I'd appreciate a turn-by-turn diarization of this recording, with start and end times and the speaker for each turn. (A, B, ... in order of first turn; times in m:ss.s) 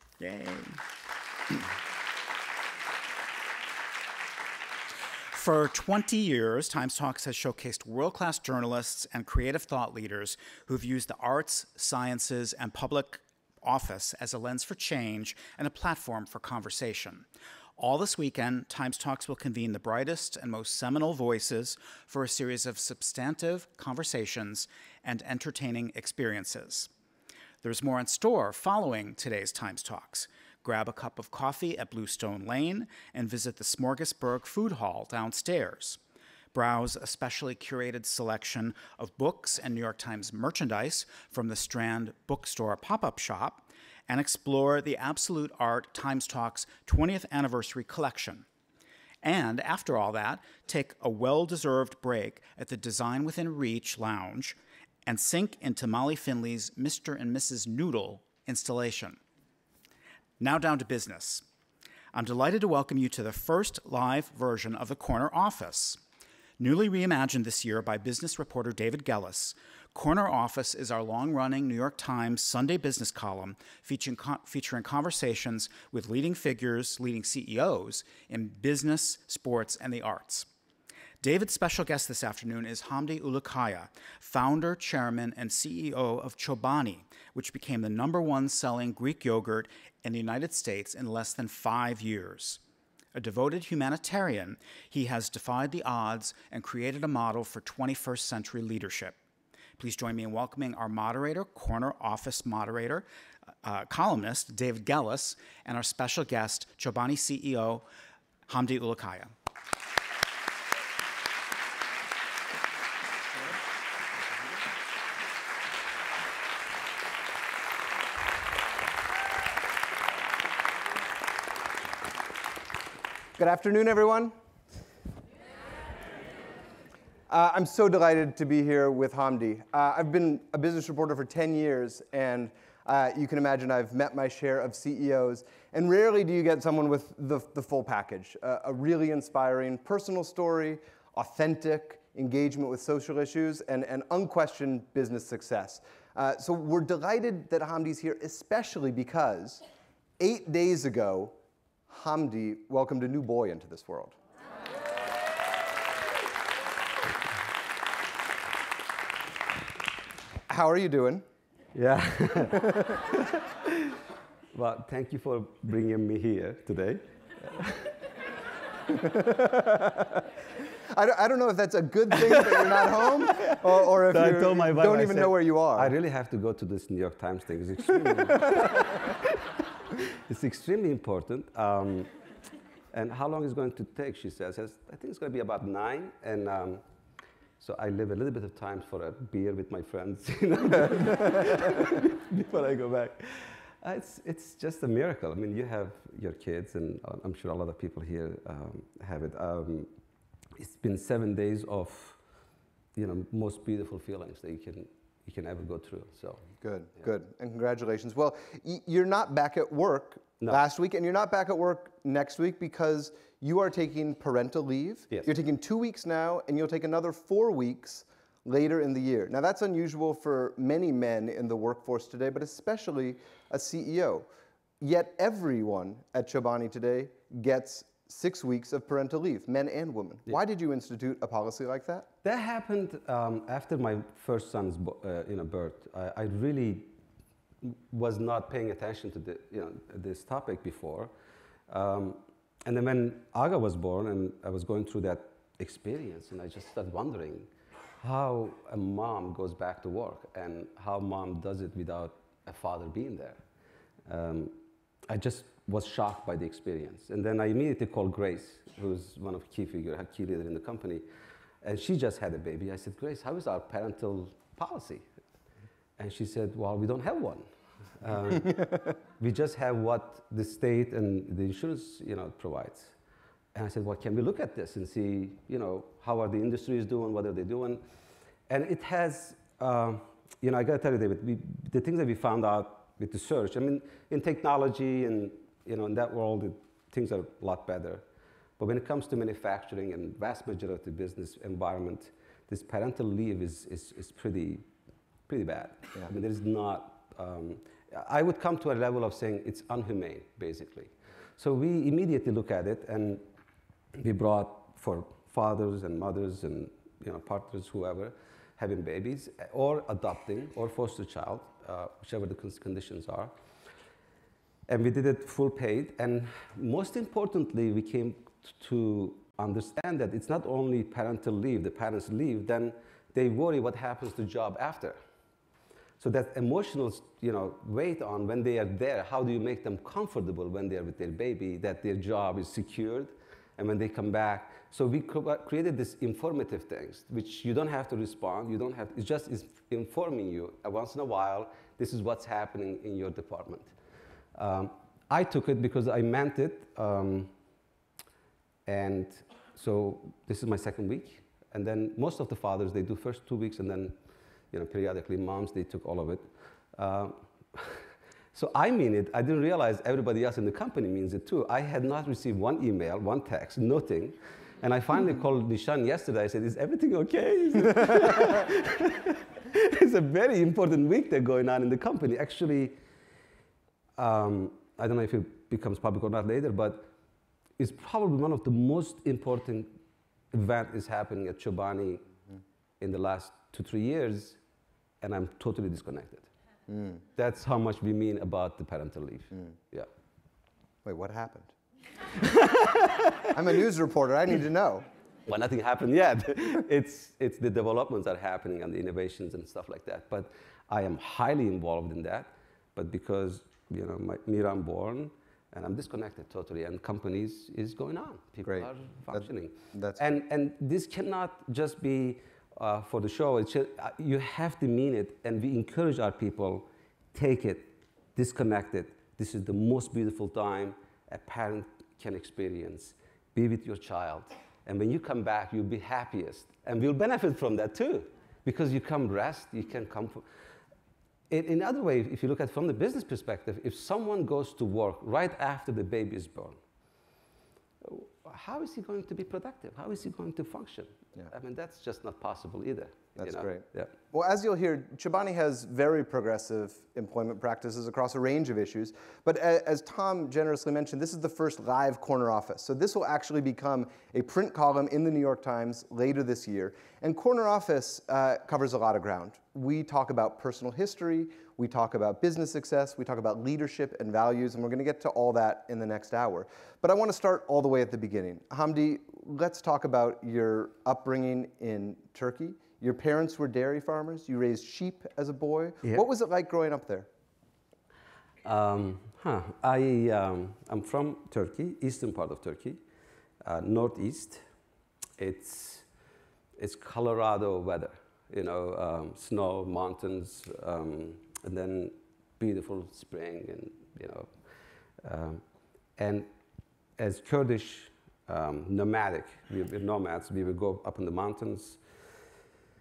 0:00.2-0:00.8 A
0:05.3-0:17.3 A
0:17.8-0:26.9 A
0:27.6-0:36.0 A
0:36.5-0:48.4 A
0:49.2-0:59.2 A
1:00.4-1:01.4 A
1:02.1-1:06.0 A
1:06.6-1:20.5 A
1:21.2-1:32.6 A
1:33.2-1:39.2 A
1:39.8-1:43.1 A
1:43.6-1:47.8 A
1:48.5-1:49.3 A
2:03.4-2:04.3 B
2:07.3-2:29.6 B
2:30.2-2:31.4 B
2:31.9-2:34.2 B
2:40.5-2:41.3 B
2:41.7-2:44.0 C
2:44.5-2:47.9 C
2:48.9-2:50.2 B
2:50.8-2:55.9 B
2:52.3-3:02.1 C
2:58.3-2:58.6 B
3:02.9-3:06.8 C
3:07.6-3:19.9 C
3:20.6-3:22.2 C
3:23.0-3:26.4 C
3:26.6-3:44.3 B
3:44.8-3:52.1 B
3:52.2-3:56.9 C
3:57.6-4:01.1 C
4:01.7-4:07.5 C
4:08.0-4:13.4 C
4:14.1-4:14.6 C
4:15.1-4:21.0 C
4:21.6-4:25.0 C
4:26.0-4:27.5 C
4:28.0-4:32.9 C
4:33.6-4:37.8 C
4:38.5-4:48.0 C
4:48.6-4:54.6 C
4:55.3-5:03.2 C
5:04.0-5:13.3 C
5:14.7-5:25.0 C
5:26.0-5:43.7 C
5:44.4-5:47.3 C
5:48.7-5:54.0 C
5:54.5-5:57.8 C
5:58.3-6:12.8 C
6:14.0-6:16.9 C
6:17.6-6:19.8 C
6:20.3-6:22.1 C
6:22.8-6:24.4 C
6:25.0-6:26.3 C
6:26.7-6:27.0 B
6:27.2-6:29.9 C
6:30.8-6:31.5 B
6:32.2-6:33.3 C
6:33.3-6:34.9 B
6:35.3-7:10.2 C
6:48.5-6:50.0 B
7:11.3-7:16.6 C
7:17.8-7:23.9 C
7:23.2-7:57.1 B
7:58.4-8:02.8 C
8:03.4-8:04.4 C
8:05.2-8:05.9 C
8:06.6-8:14.3 C
8:15.0-8:15.4 C
8:16.0-8:16.3 C
8:17.0-8:21.8 C